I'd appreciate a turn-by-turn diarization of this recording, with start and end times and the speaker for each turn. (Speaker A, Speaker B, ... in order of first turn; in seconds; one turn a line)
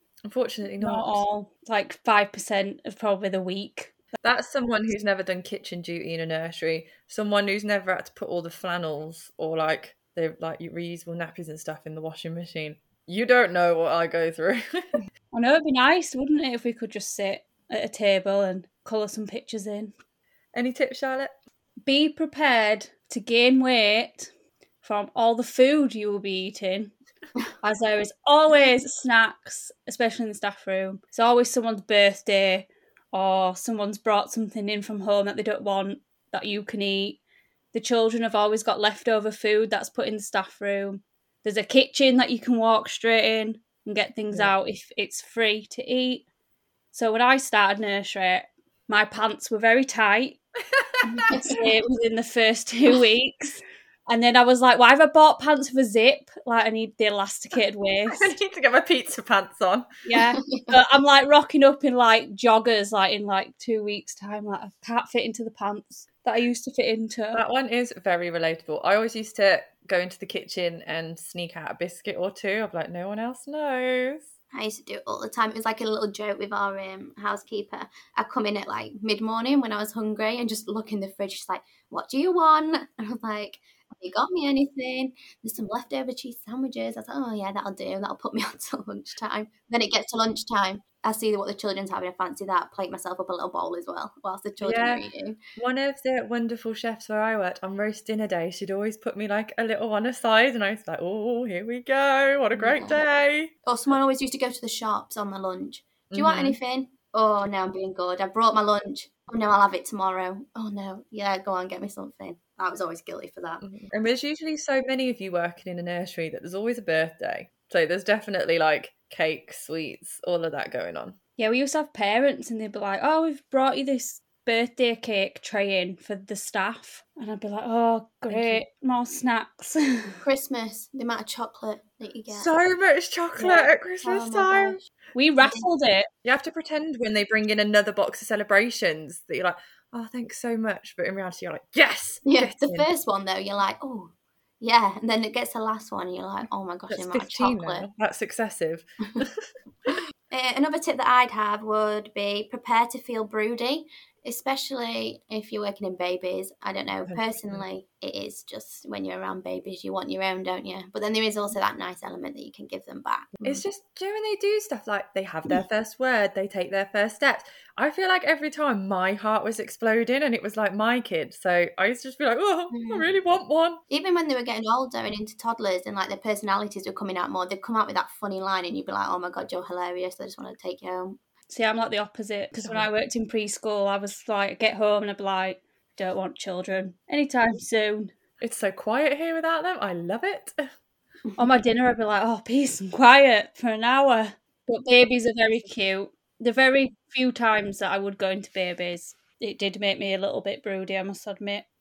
Speaker A: 0.3-1.2
Speaker B: 0.8-4.0
Speaker A: 4.2-15.0
Speaker B: 15.3-19.9
Speaker A: 20.5-21.3
Speaker B: 21.8-24.3
Speaker B: 24.8-26.9
Speaker B: 27.6-37.2
Speaker B: 37.7-46.2
Speaker B: 46.9-50.4
Speaker C: 51.2-51.6
Speaker B: 51.4-58.4
Speaker A: 58.1-59.9
Speaker B: 60.1-67.4
Speaker C: 60.3-60.7
Speaker A: 67.3-74.3
Speaker C: 74.5-95.4
Speaker A: 94.6-95.0
Speaker A: 95.6-103.5
Speaker C: 102.5-103.0
Speaker C: 103.6-113.7
Speaker A: 106.1-106.6
Speaker A: 113.6-121.2
Speaker B: 121.4-130.2
Speaker A: 128.3-128.6
Speaker C: 130.2-132.5
Speaker A: 132.3-134.8
Speaker C: 134.0-134.8
Speaker B: 135.1-136.1
Speaker C: 135.4-135.7
Speaker A: 136.2-142.9
Speaker C: 142.2-147.9
Speaker A: 146.4-149.3
Speaker C: 150.3-163.6
Speaker A: 157.1-157.6
Speaker A: 163.4-173.8
Speaker C: 172.7-173.1
Speaker C: 173.9-181.2
Speaker B: 181.5-188.1
Speaker A: 182.6-182.9
Speaker A: 188.4-190.6
Speaker C: 191.3-191.6
Speaker B: 191.4-201.7